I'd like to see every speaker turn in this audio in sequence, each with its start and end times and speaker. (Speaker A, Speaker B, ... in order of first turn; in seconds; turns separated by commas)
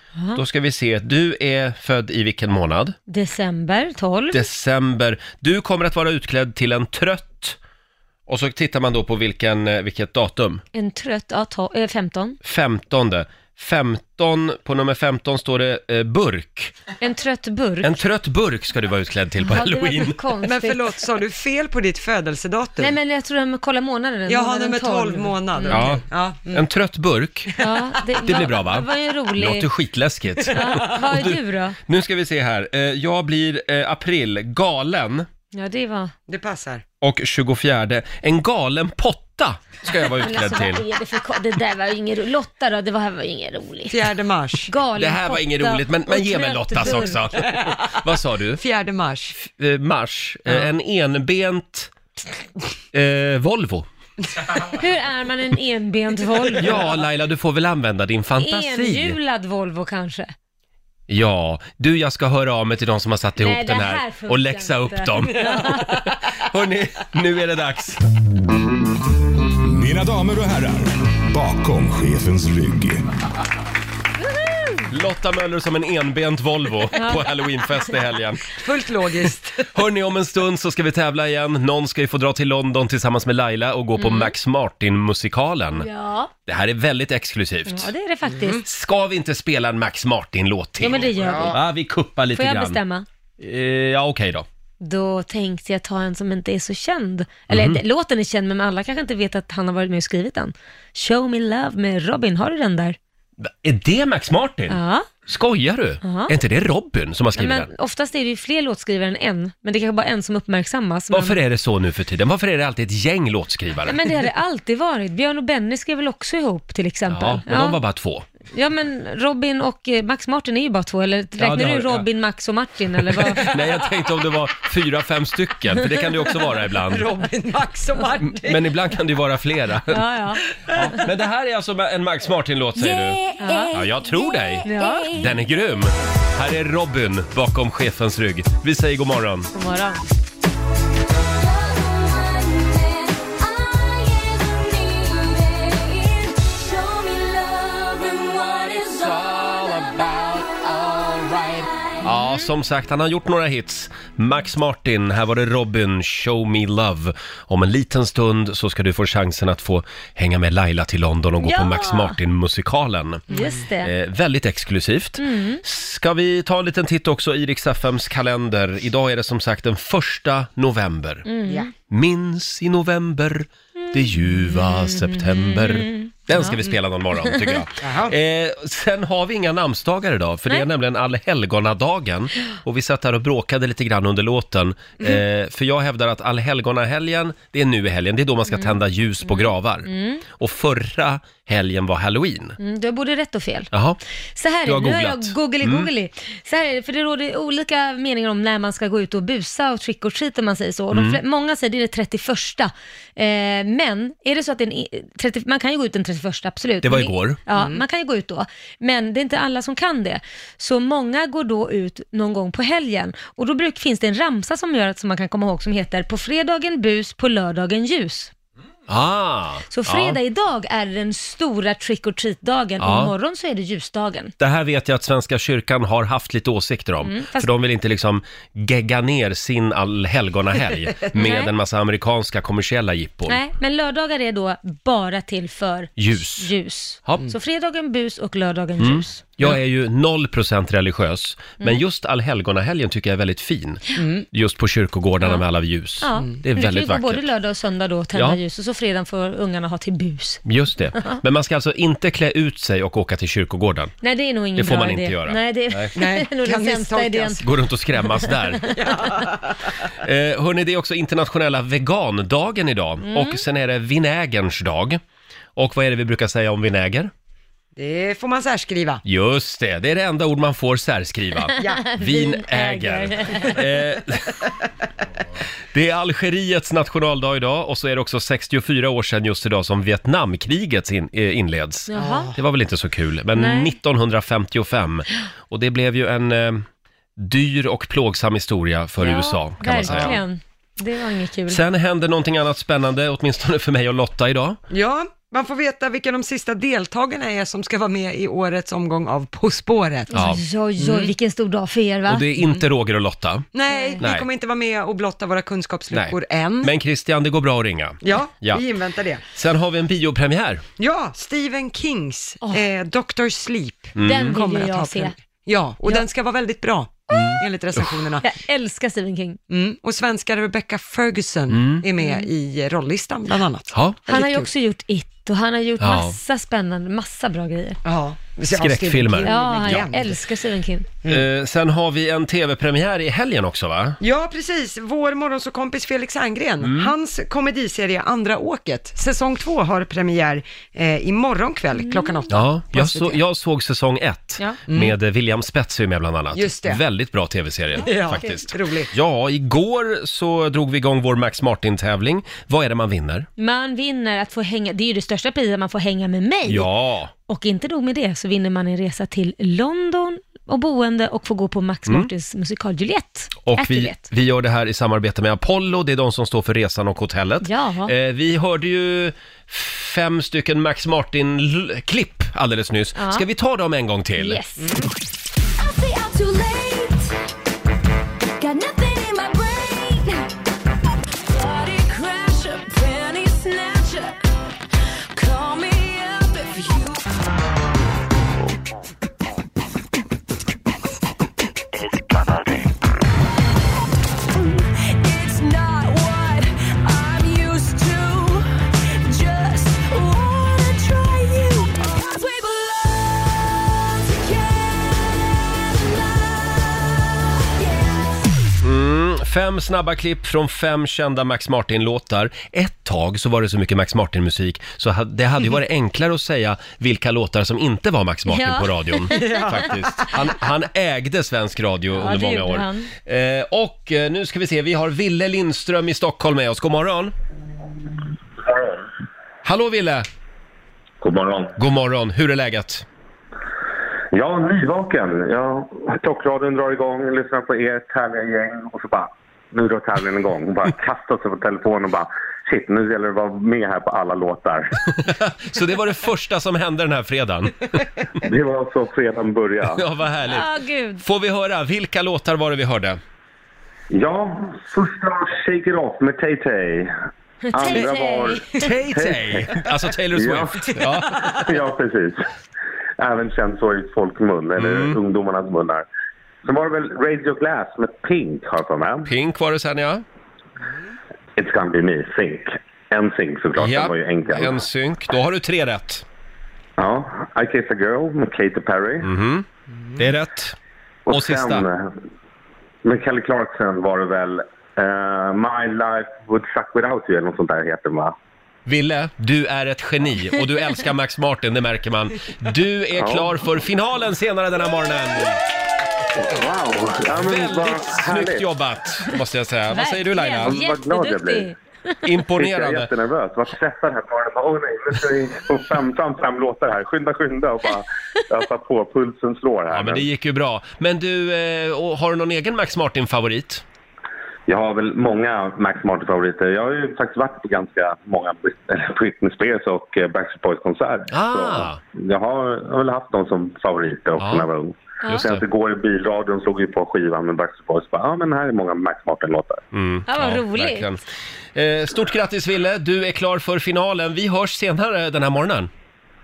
Speaker A: 0.2-0.4, Speaker B: 0.3-3.0, Speaker A: 3.1-4.5, Speaker B: 4.3-7.6, Speaker B: 8.3-10.6, Speaker A: 10.7-12.4, Speaker B: 12.4-16.8, Speaker A: 17.0-17.9, Speaker B: 17.8-20.2, Speaker A: 19.4-20.9, Speaker C: 20.4-22.9, Speaker A: 22.8-25.9, Speaker C: 24.3-26.6, Speaker B: 25.7-27.6, Speaker A: 27.6-29.7, Speaker B: 28.2-35.2, Speaker C: 30.5-30.9, Speaker A: 30.5-31.8, Speaker A: 35.5-36.1, Speaker C: 36.3-36.8, Speaker B: 37.0-40.8, Speaker A: 40.0-44.0, Speaker C: 43.9-44.7, Speaker A: 44.6-47.2, Speaker B: 45.0-48.6, Speaker C: 47.4-47.9, Speaker C: 48.6-49.3, Speaker B: 49.4-51.9, Speaker B: 52.9-53.9, Speaker A: 54.6-57.0, Speaker B: 56.6-59.2, Speaker A: 58.4-60.3, Speaker B: 61.1-68.0, Speaker A: 63.4-66.0, Speaker D: 69.6-73.0, Speaker B: 74.9-78.5, Speaker A: 76.9-77.2, Speaker C: 78.6-79.6, Speaker B: 79.7-85.9, Speaker A: 84.0-84.3, Speaker A: 85.7-86.3, Speaker B: 86.5-87.9, Speaker A: 87.7-88.6, Speaker C: 88.3-88.6, Speaker B: 88.6-92.8, Speaker A: 90.8-91.6, Speaker C: 91.2-91.5, Speaker A: 92.3-93.0, Speaker B: 93.4-94.5, Speaker A: 94.8-103.0, Speaker B: 97.5-97.8, Speaker B: 103.4-107.7, Speaker A: 104.7-105.1, Speaker A: 106.0-106.3, Speaker A: 107.3-111.4, Speaker B: 111.1-114.0, Speaker A: 113.9-117.8, Speaker B: 117.1-118.2, Speaker A: 118.5-123.5, Speaker B: 121.4-122.0, Speaker B: 123.1-127.1, Speaker C: 126.7-128.6, Speaker B: 128.2-130.0, Speaker A: 129.9-131.0, Speaker B: 130.8-133.2, Speaker E: 133.1-135.2, Speaker A: 133.4-133.8, Speaker B: 133.7-139.5, Speaker A: 134.6-135.1, Speaker A: 139.5-140.0, Speaker E: 141.3-152.0, Speaker B: 152.0-163.2, Speaker A: 152.2-152.5, Speaker A: 161.4-162.2, Speaker C: 163.3-163.6, Speaker A: 163.3-163.9, Speaker B: 163.8-171.2, Speaker A: 165.2-165.6, Speaker A: 171.2-171.7, Speaker B: 171.9-192.6, Speaker A: 173.8-176.6, Speaker A: 177.2-177.6, Speaker C: 177.8-178.1, Speaker A: 188.5-190.2, Speaker A: 192.6-193.7, Speaker B: 193.7-194.0, Speaker A: 194.3-218.3, Speaker B: 194.6-195.9, Speaker B: 200.9-201.2, Speaker B: 206.8-207.4, Speaker C: 207.5-207.8, Speaker B: 218.9-220.2, Speaker A: 219.7-224.3, Speaker B: 222.8-223.1, Speaker B: 224.4-233.4, Speaker A: 227.0-227.5, Speaker A: 231.1-231.5, Speaker A: 233.3-239.2, Speaker B: 236.0-236.5, Speaker B: 238.8-247.3, Speaker C: 244.0-244.2, Speaker A: 246.0-250.4, Speaker B: 250.4-253.9, Speaker A: 254.0-257.4, Speaker B: 254.6-255.9, Speaker C: 255.9-257.4, Speaker B: 257.4-258.7, Speaker A: 258.2-258.8, Speaker C: 258.7-259.7, Speaker B: 260.0-265.0, Speaker A: 263.0-263.4, Speaker B: 265.6-267.1, Speaker C: 267.8-269.0, Speaker B: 269.0-274.4, Speaker C: 271.6-271.9, Speaker A: 271.6-273.6, Speaker B: 275.7-286.6, Speaker A: 281.9-282.3, Speaker C: 281.9-282.4, Speaker A: 283.3-283.7, Speaker B: 287.2-290.2, Speaker A: 289.0-291.6, Speaker C: 289.9-290.2, Speaker B: 291.5-294.6, Speaker C: 294.7-300.1, Speaker A: 300.1-302.3, Speaker B: 300.1-301.1, Speaker B: 302.1-303.5, Speaker C: 303.5-306.7, Speaker A: 303.7-304.0, Speaker B: 304.0-304.2, Speaker B: 305.9-308.6, Speaker C: 308.0-309.2, Speaker B: 309.3-310.6, Speaker C: 310.8-318.2, Speaker B: 313.9-314.4, Speaker A: 314.0-315.1, Speaker B: 317.1-317.9, Speaker A: 318.2-319.4, Speaker C: 319.5-324.5, Speaker B: 321.5-321.8, Speaker A: 322.0-322.3, Speaker B: 323.7-324.0, Speaker A: 324.1-327.8, Speaker B: 325.8-326.1, Speaker C: 327.8-330.2, Speaker B: 328.5-329.9, Speaker A: 329.2-330.9, Speaker B: 331.0-334.0, Speaker C: 334.0-343.2, Speaker B: 336.6-336.9, Speaker A: 341.8-342.3, Speaker B: 342.3-353.3, Speaker C: 344.7-344.9, Speaker C: 346.3-346.8, Speaker C: 347.8-348.9, Speaker A: 353.4-356.7, Speaker B: 356.5-357.1, Speaker A: 357.3-364.0, Speaker B: 363.4-374.4, Speaker A: 367.4-367.9, Speaker A: 372.9-373.2, Speaker A: 374.2-374.7, Speaker C: 374.6-374.9, Speaker E: 375.6-377.1, Speaker E: 378.4-380.3, Speaker E: 381.2-384.2, Speaker E: 385.1-387.2, Speaker E: 394.3-408.5, Speaker B: 408.6-427.1, Speaker A: 418.3-419.5, Speaker C: 419.1-420.0, Speaker A: 421.9-422.9, Speaker F: 428.5-428.8, Speaker B: 429.4-430.1, Speaker F: 431.0-431.5, Speaker B: 431.6-432.8, Speaker F: 434.1-444.7, Speaker B: 445.0-447.8, Speaker F: 448.2-449.8, Speaker B: 449.7-450.5, Speaker A: 450.3-451.0, Speaker B: 451.0-453.0, Speaker F: 453.9-456.9, Speaker A: 457.5-458.6, Speaker F: 457.5-459.6, Speaker B: 458.6-461.2, Speaker F: 460.1-462.2, Speaker F: 463.0-465.9, Speaker B: 464.6-465.0, Speaker F: 466.4-469.1, Speaker B: 469.1-470.0, Speaker F: 471.4-474.6, Speaker B: 473.6-476.0, Speaker F: 476.8-479.1, Speaker B: 479.0-480.5, Speaker F: 481.1-481.9, Speaker B: 481.1-481.6, Speaker F: 482.8-488.1, Speaker B: 488.6-495.4, Speaker F: 493.0-493.3, Speaker F: 496.1-498.4, Speaker B: 497.1-500.6, Speaker A: 499.7-501.5, Speaker F: 500.4-501.5, Speaker B: 502.0-502.9, Speaker F: 502.4-510.1, Speaker B: 509.7-513.6, Speaker F: 514.5-529.6, Speaker B: 521.1-521.8, Speaker B: 524.2-524.5, Speaker B: 525.1-525.4, Speaker B: 529.7-531.0, Speaker A: 530.1-530.9, Speaker B: 531.5-535.7